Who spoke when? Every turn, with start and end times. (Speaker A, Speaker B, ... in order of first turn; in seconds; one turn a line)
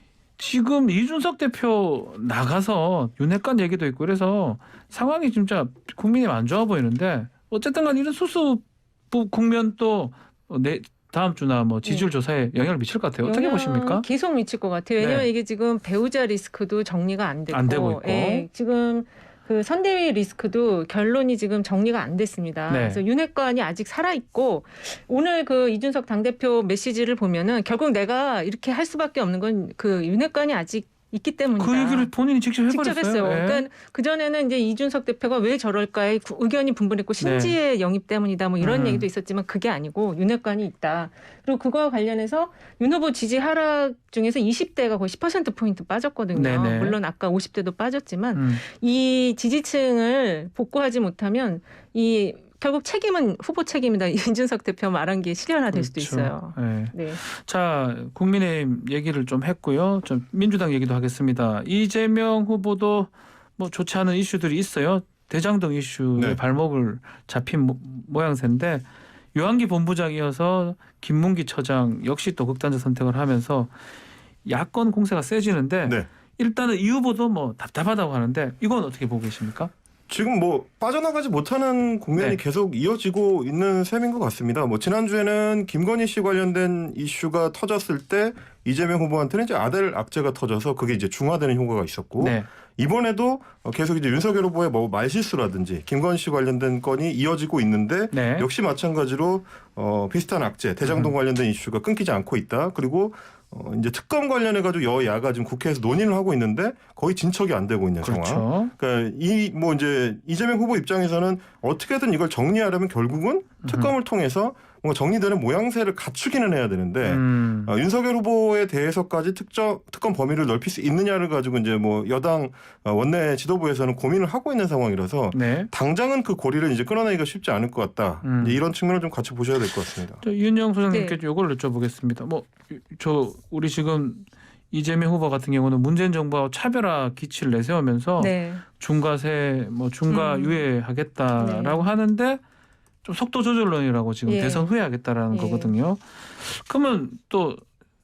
Speaker A: 0.4-14.0
Speaker B: 13.2-32.1
Speaker A: 15.0-15.3
Speaker A: 17.5-18.5
Speaker A: 22.7-23.0
Speaker A: 31.6-33.6
Speaker B: 32.7-57.2
Speaker A: 37.2-37.6
Speaker A: 38.6-39.1
Speaker A: 46.3-47.0
Speaker A: 48.3-48.6
Speaker A: 55.7-73.7
Speaker A: 74.4-79.7
Speaker C: 80.1-130.2
Speaker A: 92.2-92.5
Speaker A: 98.1-98.5
Speaker A: 100.9-101.1
Speaker A: 108.0-108.7
Speaker A: 113.6-113.9
Speaker A: 117.0-117.7
Speaker A: 125.3-125.7
Speaker A: 128.2-128.6
Speaker A: 130.2-142.4
Speaker B: 130.9-131.2
Speaker B: 138.2-138.6
Speaker B: 140.1-140.6
Speaker B: 141.4-141.9
Speaker A: 143.0-147.6
Speaker B: 144.3-144.7
Speaker B: 145.3-145.7